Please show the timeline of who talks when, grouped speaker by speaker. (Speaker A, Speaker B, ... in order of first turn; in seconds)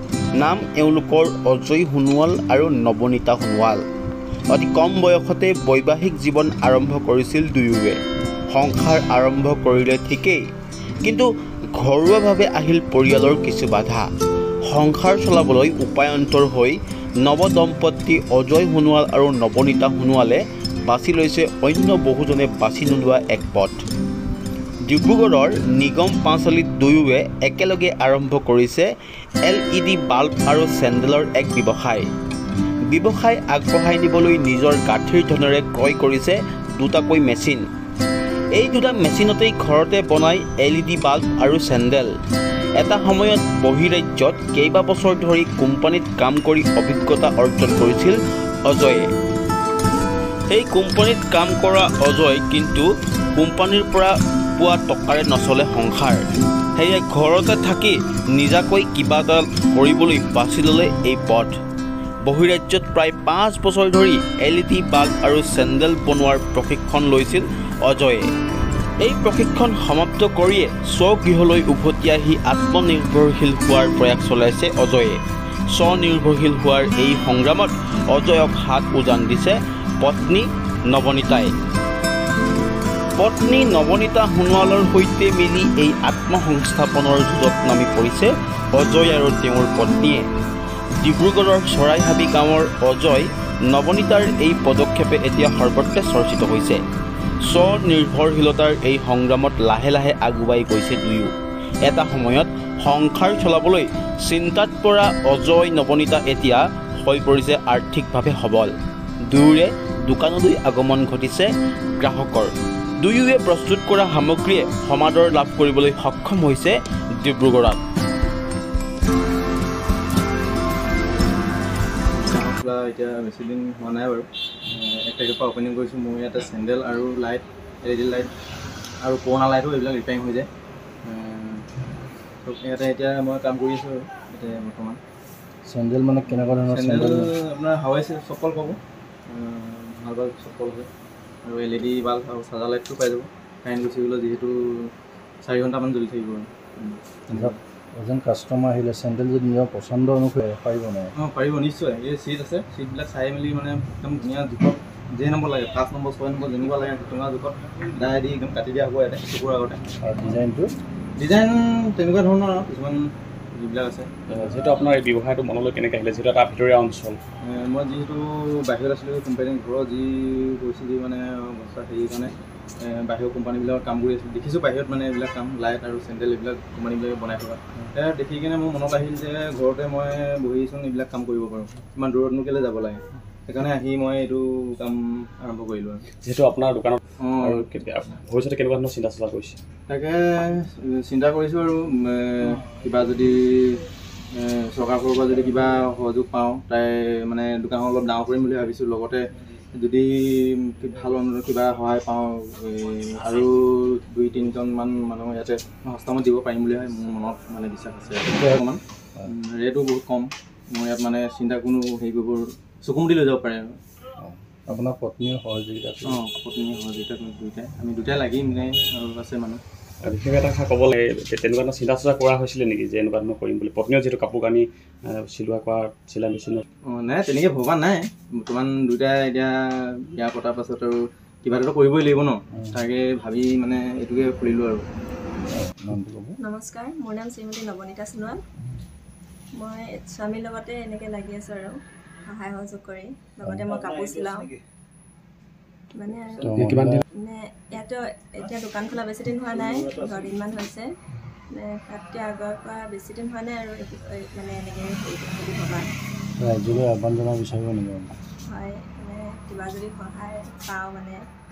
Speaker A: 0.4-3.8, 4.5-8.0, 8.5-10.4, 11.0-14.1, 14.7-23.8, 24.9-28.9, 29.4-32.0, 32.9-37.6, 38.5-42.1, 42.8-49.1, 50.5-56.2, 56.8-61.5, 62.2-68.2, 69.0-75.2, 75.7-81.5, 83.2-90.3, 91.0-96.8, 97.5-101.3, 101.8-108.7, 109.2-117.8
Speaker B: 122.2-128.3, 129.0-130.5, 131.0-131.6, 132.4-135.0, 136.4-140.9, 141.4-144.9, 145.4-147.6, 151.2-159.8, 161.2-164.1, 167.4-186.0, 187.2-187.7, 189.9-193.8, 194.3-213.8, 216.0-219.6, 226.8-234.8
Speaker C: 135.6-137.3, 147.3-151.1, 160.0-160.7, 214.2-216.2, 235.5-236.3, 246.4-247.0, 256.4-258.1
Speaker D: 164.3-167.2, 186.2-189.6, 220.0-226.6, 246.5-247.0
Speaker E: 236.4-238.4, 239.6-241.8, 242.3-244.5, 245.9-246.5, 247.1-250.8, 251.5-255.9, 258.5-261.2